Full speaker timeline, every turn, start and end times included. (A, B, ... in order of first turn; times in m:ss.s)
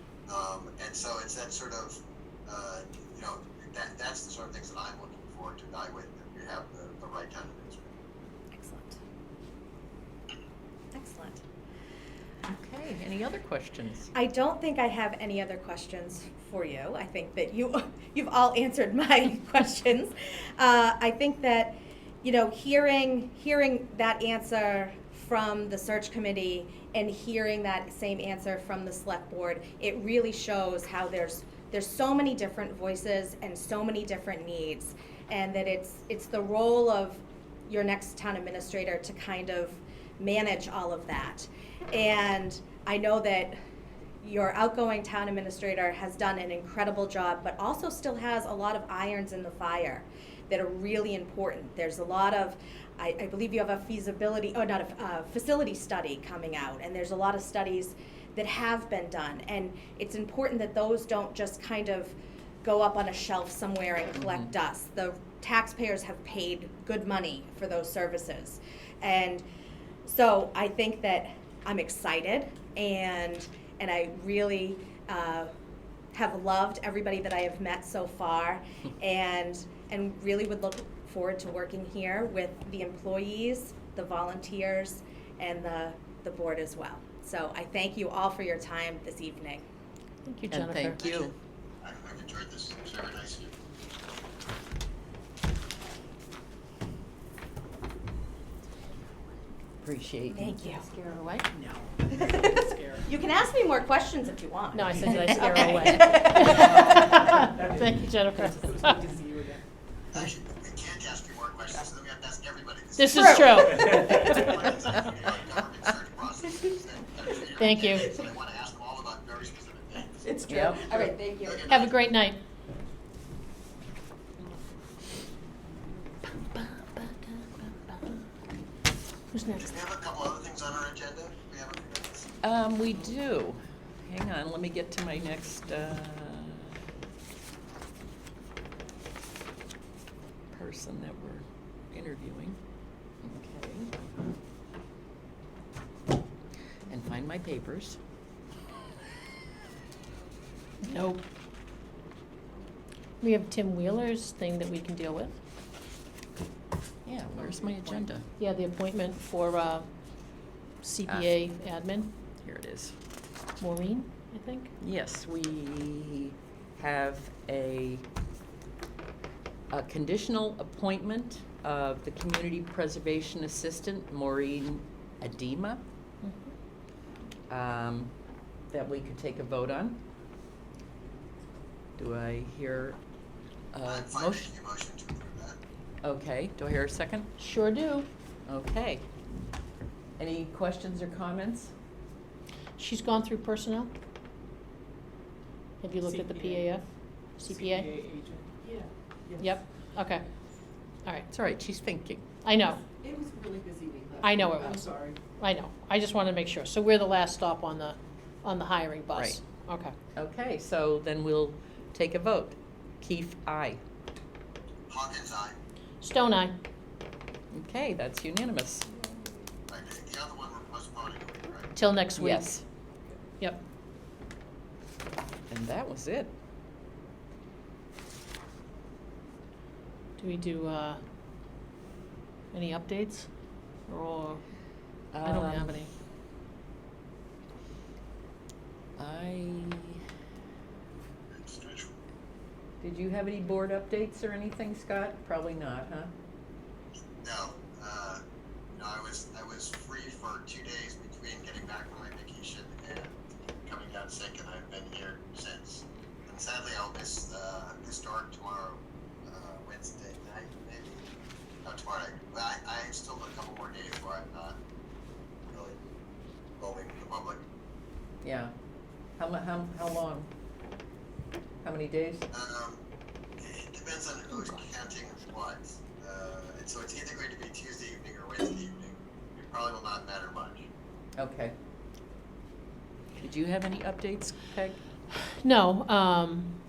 0:00.3-0:08.0 A
0:08.5-0:09.0 B
0:10.9-0:11.4 B
0:12.5-0:14.1 C
0:14.1-0:43.6 B
0:44.2-1:09.4 B
1:04.2-1:04.5 C
1:10.0-1:15.5 B
1:16.1-1:29.6 B
1:30.2-1:31.0 D
1:30.4-1:31.3 C
1:31.0-1:33.6 A
1:39.8-1:40.4 C
1:40.3-1:41.0 B
1:41.2-1:41.4 D
1:42.1-1:47.0 B
1:44.7-1:49.0 D
1:46.2-1:47.8 E
1:48.4-1:49.6 E
1:50.1-2:00.2 A
1:53.0-1:54.5 D
1:53.1-1:54.1 B
1:57.6-1:58.1 D
2:00.2-2:01.7 B
2:00.5-2:00.8 C
2:01.4-2:01.9 A
2:01.7-2:02.4 D
2:06.6-2:07.2 C
2:09.3-2:09.7 D
2:09.5-2:12.3 A
2:12.4-2:16.8 C
2:20.5-2:22.6 C
2:23.2-2:23.9 C
2:26.9-2:28.0 C
2:30.8-2:31.2 D
2:33.2-2:35.4 D
2:37.0-2:38.2 C
2:38.4-2:39.9 D
2:40.8-2:42.1 D
2:41.1-2:41.4 C
2:42.4-2:42.9 C
2:43.6-2:44.7 D
2:44.8-2:48.0 C
2:49.7-2:55.8 C
2:56.2-2:56.5 D
2:57.5-2:58.1 C
2:58.7-3:00.0 C
3:02.0-3:03.0 C
3:03.7-3:04.5 C
3:03.9-3:05.6 A
3:06.0-3:07.3 C
3:07.4-3:08.1 D
3:08.5-3:09.0 C
3:10.2-3:11.7 C
3:12.8-3:13.9 D
3:15.8-3:16.9 D
3:17.4-3:17.9 D
3:18.0-3:19.4 E
3:19.4-3:20.2 D
3:21.0-3:21.3 D
3:21.3-3:22.2 C
3:22.4-3:22.8 D
3:23.0-3:25.1 E
3:24.2-3:30.0 D
3:29.1-3:29.4 C
3:30.2-3:33.8 C
3:34.9-3:35.6 A
3:36.0-3:36.6 D
3:37.5-3:38.9 C
3:39.7-3:41.7 A
3:41.7-3:42.6 D
3:42.2-3:42.6 C
3:45.5-3:46.3 C
3:50.2-3:51.0 D
3:52.5-3:53.3 D
3:53.9-3:54.4 D
3:55.1-3:55.8 C
3:55.2-3:55.9 D
3:59.0-4:00.0 C
4:01.3-4:02.0 A
4:02.8-4:06.1 C
4:07.2-4:21.1 A
4:21.6-4:24.6 A
4:25.5-4:25.8 A
4:26.6-4:27.4 A
4:28.2-4:28.5 C
4:29.2-4:30.3 C
4:31.6-4:32.3 C
4:32.3-4:32.8 A
4:33.4-4:40.7 A
4:41.2-4:41.6 C
4:43.2-4:44.8 C
4:45.4-4:46.6 D